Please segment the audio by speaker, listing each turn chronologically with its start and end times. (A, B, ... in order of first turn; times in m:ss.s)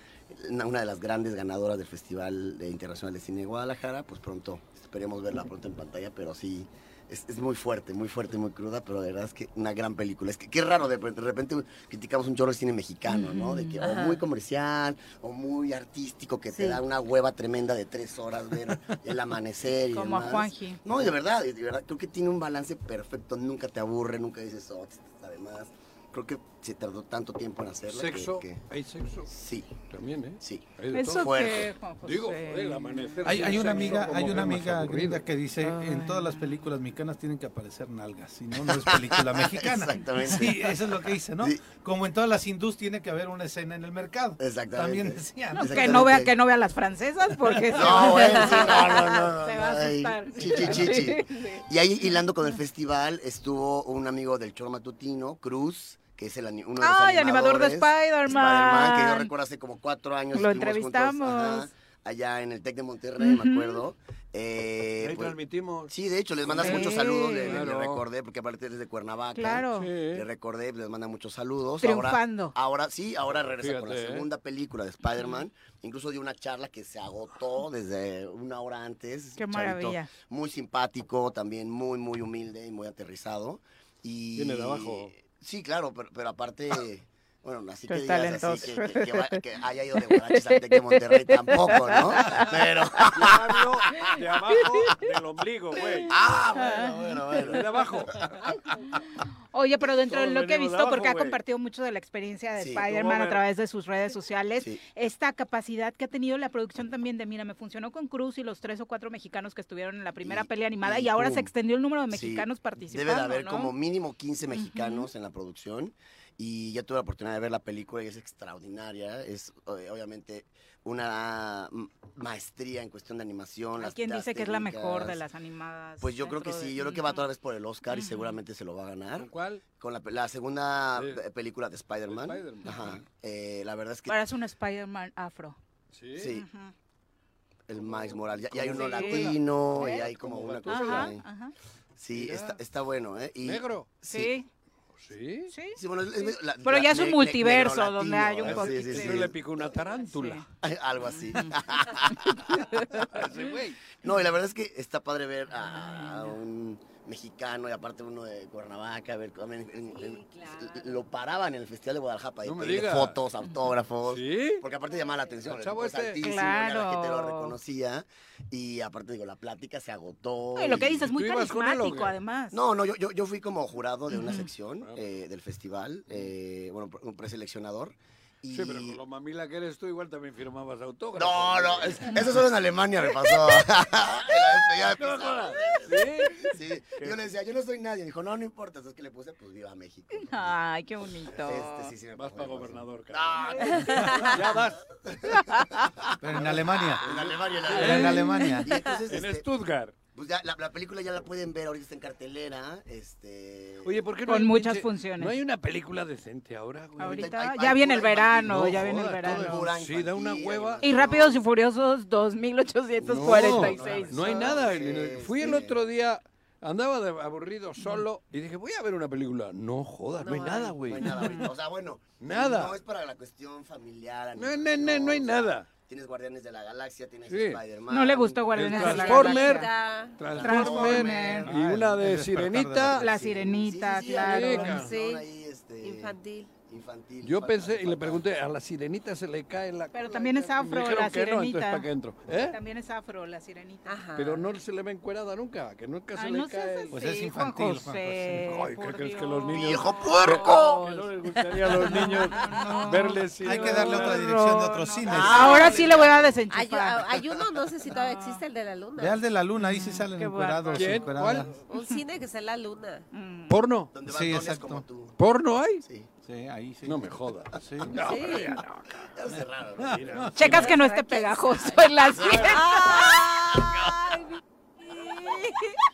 0:00.3-0:28.6 A
0:13.1-0:13.7 B
0:13.7-0:14.2 C
0:16.5-0:16.8 C
0:19.8-0:20.8 B
0:27.9-0:29.3 D
0:29.3-0:29.7 A
0:29.9-0:35.2 D
0:30.4-0:31.7 A
0:30.9-0:33.9 B
0:33.2-0:45.9 E
0:35.8-0:36.6 B
0:38.7-0:40.6 A
0:44.4-0:46.3 A
0:45.5-0:52.1 B
0:47.7-1:05.4 A
0:48.1-0:48.7 C
0:56.8-0:59.3 B
1:00.3-1:01.7 B
1:03.2-1:03.8 B
1:05.0-1:08.1 D
1:05.9-1:33.4 A
1:06.6-1:07.6 B
1:09.4-1:09.9 B
1:09.7-1:10.3 D
1:11.8-1:12.6 B
1:13.3-1:14.3 D
1:19.4-1:20.1 B
1:24.4-1:25.1 D
1:27.9-1:29.4 B
1:30.0-1:33.1 B
1:33.1-1:36.1 D
1:36.1-1:37.6 A
1:36.5-1:37.0 B
1:37.4-1:38.4 D
1:39.5-1:53.7 B
1:40.1-1:41.4 D
1:42.6-1:42.8 A
1:42.8-1:43.4 D
1:50.2-1:51.5 A
1:52.1-2:05.2 A
1:54.5-1:55.1 B
2:03.8-2:07.3 B
2:06.0-2:14.2 A
2:07.9-2:08.3 B
2:09.2-2:09.6 D
2:11.0-2:11.2 D
2:12.0-2:13.0 D
2:14.1-2:15.6 B
2:15.9-2:16.3 D
2:16.2-2:16.5 A
2:16.2-2:16.7 B
2:17.7-2:21.3 A
2:17.7-2:21.2 D
2:18.8-2:20.1 B
2:20.7-2:21.5 B
2:22.0-2:24.3 A
2:22.1-2:22.6 D
2:23.4-2:23.9 D
2:24.0-2:24.5 B
2:25.0-2:25.5 D
2:25.5-2:29.3 B
2:25.7-2:29.7 A
2:28.4-2:30.5 D
2:30.1-2:30.4 B
2:30.6-2:32.6 A
2:32.1-2:32.8 B
2:33.1-2:33.8 D
2:34.0-2:51.1 A
2:35.7-2:36.3 B
2:39.9-2:41.0 C
2:42.4-2:43.2 D
2:44.0-2:44.6 D
2:45.4-2:46.2 D
2:46.2-2:47.6 B
2:50.6-2:52.6 B
2:50.7-2:52.1 D
2:52.5-2:59.0 A
2:54.1-2:54.5 B
2:58.5-3:02.4 D
3:01.2-3:10.6 A
3:04.7-3:07.2 D
3:10.1-3:11.9 B
3:11.3-3:13.9 A
3:12.1-3:14.9 D
3:15.1-3:19.5 A
3:16.2-3:17.0 E
3:17.0-3:18.3 D
3:17.7-3:18.8 E
3:19.1-3:20.0 D
3:20.1-3:23.9 A
3:23.8-3:27.4 D
3:24.3-3:25.3 B
3:27.0-3:29.7 B
3:27.1-3:31.4 A
3:28.4-3:30.8 D
3:30.8-3:34.6 B
3:33.0-3:41.5 D
3:33.9-3:35.8 A
3:40.2-3:41.3 C
3:40.9-3:48.5 A
3:42.2-3:42.8 D
3:44.4-3:45.7 D
3:47.3-3:47.6 D
3:47.9-3:49.7 B
3:48.5-3:53.1 D
3:48.8-3:50.2 C
3:50.2-3:51.5 A
3:50.4-3:51.5 B
3:51.4-3:53.0 E
3:53.0-3:54.9 B
3:53.0-3:58.2 A
3:54.0-3:55.0 D
3:54.6-3:55.3 C
3:55.8-3:56.5 C
3:57.2-4:02.6 D
3:59.9-4:01.9 B
4:02.4-4:04.0 B
4:03.9-4:04.5 C
4:04.2-4:07.0 D
4:06.2-4:11.1 B
4:06.9-4:08.6 E
4:08.5-4:14.2 D
4:09.5-4:10.6 A
4:11.7-4:12.2 C
4:11.8-4:17.0 B
4:12.6-4:12.9 E
4:13.4-4:15.8 E
4:15.0-4:16.4 A
4:15.3-4:16.0 D
4:16.5-4:19.2 C
4:17.9-4:18.4 B
4:19.0-4:21.5 E
4:19.6-4:21.0 B
4:20.7-4:21.6 D
4:21.7-4:23.0 C
4:21.7-4:22.0 B
4:23.1-4:23.5 B
4:23.5-4:23.9 D
4:23.9-4:25.2 A
4:24.1-4:24.9 E
4:25.2-4:25.8 D
4:25.8-4:26.1 A
4:26.2-4:28.6 E
4:26.8-4:29.0 D
4:28.1-4:28.6 C
4:29.2-4:30.1 A
4:29.3-4:30.3 E
4:29.8-4:30.8 D
4:30.4-4:33.1 B
4:30.5-4:31.9 C
4:32.2-4:32.8 D
4:32.4-4:35.8 C
4:32.8-4:33.7 A
4:34.9-4:35.2 B